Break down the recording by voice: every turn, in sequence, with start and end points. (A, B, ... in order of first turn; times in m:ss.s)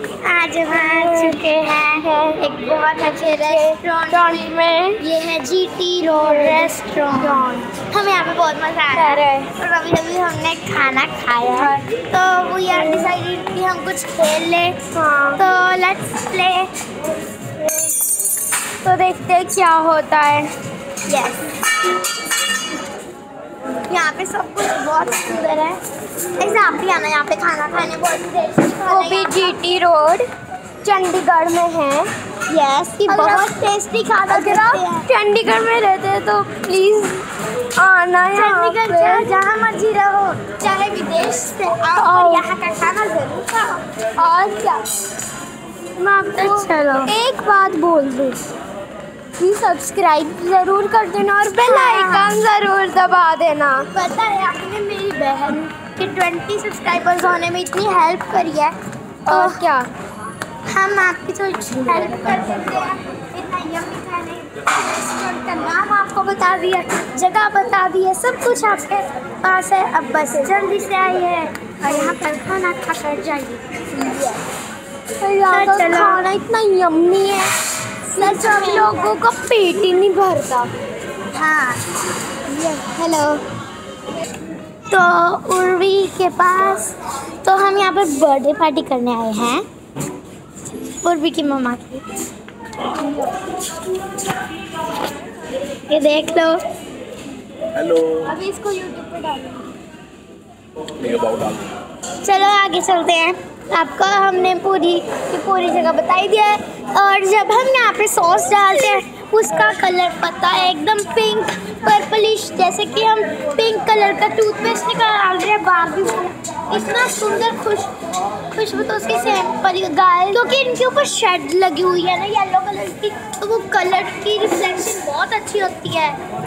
0:00.2-0:14.8 A
0:00.7-0:01.4 B
0:02.0-0:02.5 B
0:03.4-0:05.0 B
0:06.2-0:07.7 B
0:08.9-0:09.5 B
0:15.0-0:15.4 B
0:15.4-0:16.7 A
0:18.8-0:20.5 B
0:21.1-0:21.4 A
0:23.9-0:25.8 A
0:26.4-0:29.6 A
0:28.8-0:30.3 B
0:30.8-0:32.1 B
0:32.5-0:35.1 A
0:33.1-0:33.5 B
0:34.3-0:37.2 B
0:37.8-0:39.3 B
0:38.3-0:43.8 A
0:41.9-0:42.5 B
0:44.2-0:44.8 B
0:46.0-0:48.4 B
0:46.4-0:47.1 A
0:49.4-0:53.9 B
0:51.6-0:52.4 A
0:53.9-0:58.7 A
0:59.3-0:59.6 A
0:59.3-0:59.9 B
1:00.7-1:13.6 A
1:14.0-1:14.4 B
1:15.2-1:17.5 B
1:15.5-1:16.3 A
1:18.1-1:20.7 B
1:18.2-1:19.1 A
1:21.3-1:21.8 A
1:22.6-1:23.4 A
1:24.9-1:29.6 A
1:31.0-1:32.0 A
1:35.9-1:36.6 A
1:38.1-1:39.7 B
1:42.2-1:57.9 A
1:58.5-1:59.7 A
1:59.7-2:00.4 B
2:00.3-2:06.2 A